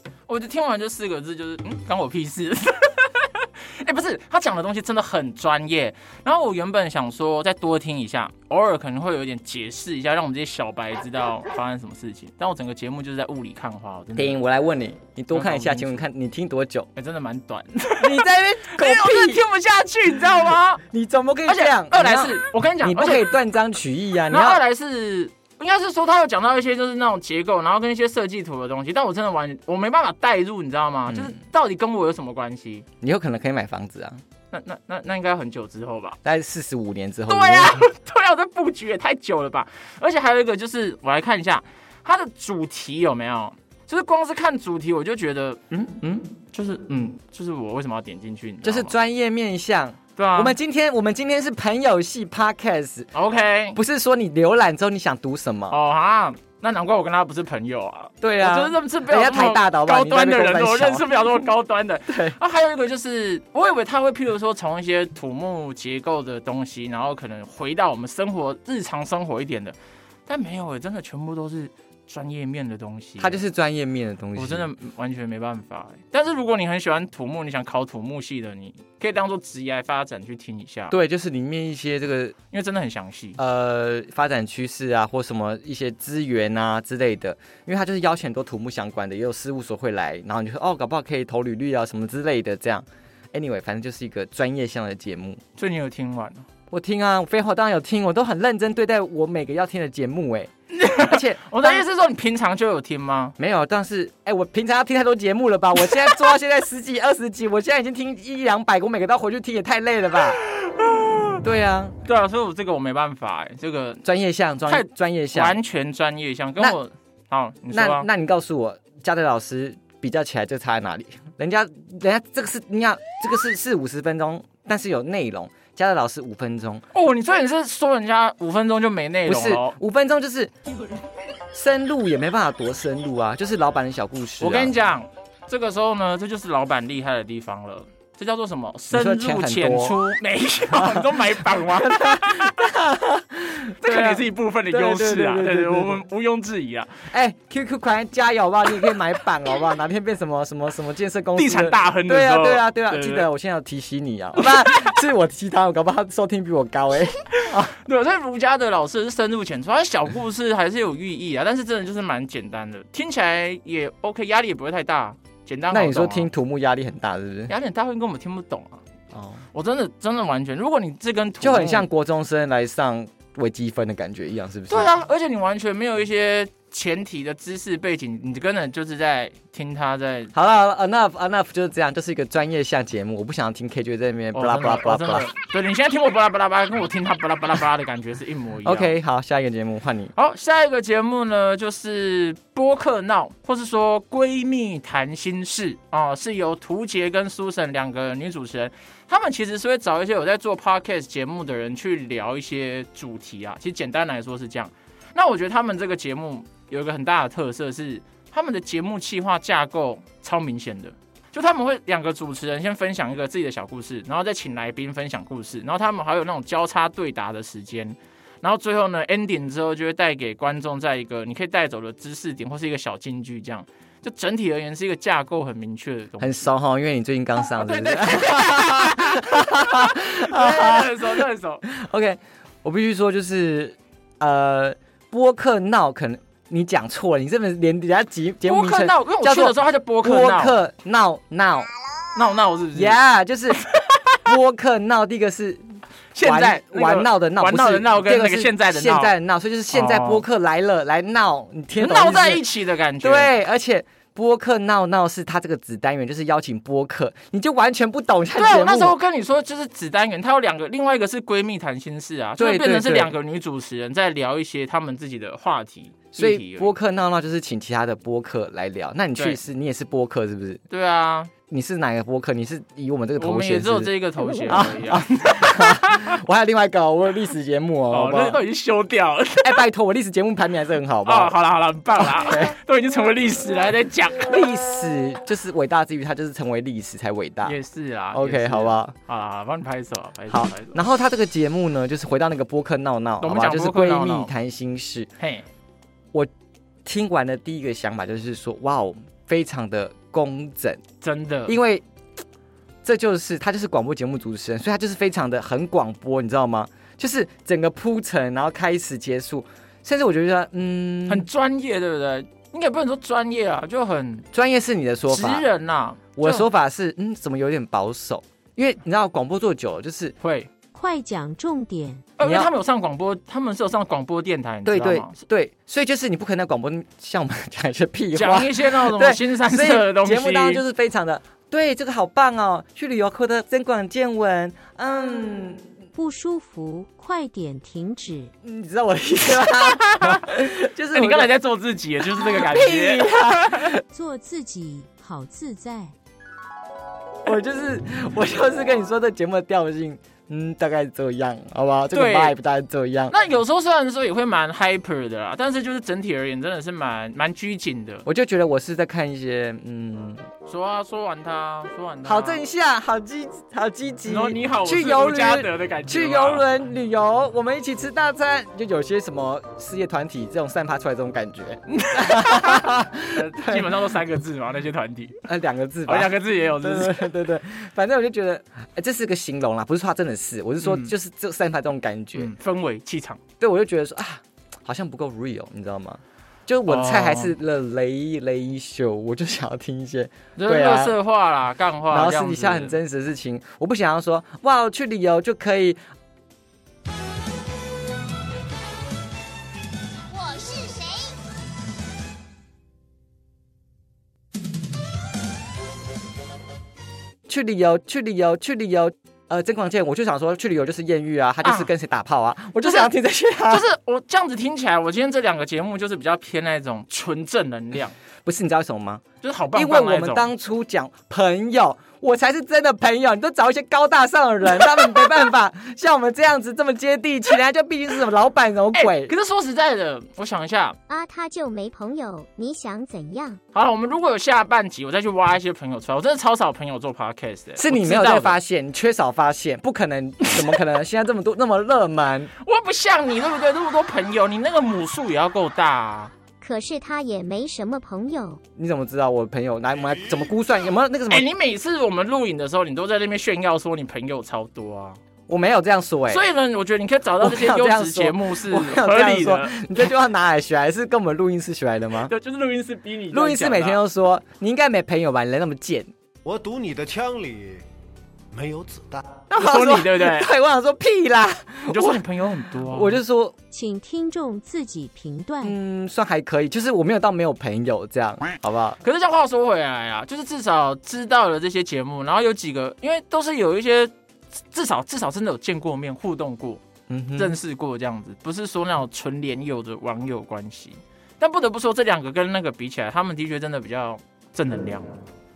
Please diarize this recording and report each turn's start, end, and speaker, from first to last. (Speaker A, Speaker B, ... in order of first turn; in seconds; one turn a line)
Speaker A: 0.3-14.4
Speaker B: 14.2-16.9
Speaker A: 15.3-16.0
Speaker A: 16.9-20.8
Speaker B: 18.0-19.4
Speaker B: 20.9-24.6
Speaker A: 21.4-23.3
Speaker A: 24.3-32.9
Speaker B: 31.1-31.3
Speaker B: 33.0-34.2
Speaker A: 34.5-36.2
Speaker B: 36.2-37.8
Speaker A: 37.3-45.6
Speaker B: 45.7-46.2
Speaker A: 46.3-48.9
Speaker B: 48.6-53.1
Speaker A: 50.2-50.5
Speaker A: 53.1-53.8
Speaker B: 53.7-55.8
Speaker A: 55.7-69.8
Speaker B: 58.2-61.2
Speaker B: 62.1-62.4
Speaker A: 70.3-73.4
Speaker B: 73.2-74.7
Speaker A: 74.3-80.9
Speaker B: 80.9-82.3
Speaker A: 82.5-83.4
Speaker B: 83.4-95.4
Speaker A: 95.6-96.5
Speaker B: 96.7-101.8
Speaker A: 100.7-103.3
Speaker B: 103.4-110.4
Speaker A: 110.4-111.4
Speaker B: 111.4-112.0
Speaker A: 112.0-114.0
Speaker B: 114.0-115.6
Speaker A: 114.7-118.1
Speaker B: 117.7-126.8
Speaker A: 126.9-129.8
Speaker B: 129.2-130.5
Speaker B: 131.5-134.7
Speaker A: 134.4-142.7
Speaker B: 138.9-140.0
Speaker B: 140.7-146.0
Speaker A: 143.8-147.0
Speaker B: 147.1-157.8
Speaker A: 151.3-153.3
Speaker A: 154.4-154.9
Speaker A: 157.7-166.3
Speaker B: 165.7-167.5
Speaker A: 167.5-168.8
Speaker B: 169.1-169.4
Speaker A: 169.5-171.9
Speaker B: 171.4-174.9
Speaker A: 174.7-180.3
Speaker B: 180.3-185.3
Speaker A: 184.3-188.9
Speaker B: 188.6-190.1
Speaker A: 190.2-226.4
Speaker B: 226.2-241.7
Speaker A: 227.6-231.6
Speaker A: 238.4-240.6
Speaker A: 242.1-243.0
Speaker B: 242.7-243.6
Speaker A: 243.7-244.2
Speaker B: 244.2-252.4
Speaker A: 246.1-249.1
Speaker A: 249.7-250.2
Speaker A: 251.8-253.3
Speaker B: 253.0-259.0
Speaker A: 258.4-266.7
Speaker B: 262.4-263.1
Speaker B: 266.1-270.6
Speaker A: 270.7-271.3
Speaker B: 271.5-278.4
Speaker A: 273.2-276.2
Speaker A: 277.9-279.6
Speaker B: 279.4-281.3
Speaker A: 281.0-284.4
Speaker B: 282.0-282.6
Speaker B: 284.2-287.6
Speaker A: 287.4-290.8
Speaker B: 288.1-288.9
Speaker B: 290.3-295.1
Speaker A: 293.2-294.3
Speaker A: 295.2-295.4
Speaker B: 296.8-300.8
Speaker A: 301.0-301.6
Speaker B: 301.5-301.8
Speaker B: 302.8-311.3
Speaker A: 311.1-314.3
Speaker B: 314.3-315.4
Speaker A: 315.1-316.5
Speaker B: 316.2-320.1
Speaker A: 320.2-320.5
Speaker C: 320.7-322.1
Speaker A: 322.2-325.2
Speaker B: 322.2-322.5
Speaker B: 324.6-335.6
Speaker A: 328.1-330.6
Speaker C: 335.9-338.3
Speaker B: 338.4-341.3
Speaker A: 339.5-340.2
Speaker A: 340.9-343.6
Speaker B: 342.0-343.8
Speaker C: 343.9-345.9
Speaker B: 347.2-353.1
Speaker A: 351.9-352.4
Speaker A: 353.1-358.0
Speaker B: 358.1-360.2
Speaker A: 360.4-362.4
Speaker B: 362.0-373.7
Speaker A: 364.1-366.5
Speaker A: 371.8-375.2
Speaker B: 375.3-382.3
Speaker A: 375.9-377.1
Speaker A: 380.6-380.9
Speaker A: 382.1-383.2
Speaker B: 383.4-390.9
Speaker A: 386.7-387.3
Speaker A: 390.4-392.8
Speaker B: 391.9-395.8
Speaker D: 400.3-400.8
Speaker B: 407.3-413.6
Speaker A: 411.4-411.7
Speaker A: 412.6-412.9
Speaker A: 413.5-417.9
Speaker B: 418.2-429.1
Speaker A: 419.2-420.3
Speaker A: 428.7-430.8
Speaker D: 430.9-433.4
Speaker A: 433.5-438.4
Speaker B: 437.6-442.3
Speaker A: 442.4-446.1
Speaker D: 446.4-448.4
Speaker B: 448.6-451.3
Speaker A: 451.1-455.0
Speaker B: 455.3-456.2
Speaker A: 456.1-459.7
Speaker B: 457.2-462.1
Speaker A: 462.1-463.8
Speaker B: 463.1-465.9
Speaker E: 466.2-467.6
Speaker E: 468.3-469.2
Speaker B: 469.3-472.0
Speaker A: 469.4-470.3
Speaker A: 471.7-473.0
Speaker B: 472.6-473.3
Speaker C: 473.5-475.6
Speaker B: 475.4-478.8
Speaker A: 478.8-483.9
Speaker A: 484.5-486.6
Speaker B: 486.9-487.4
Speaker A: 487.1-495.0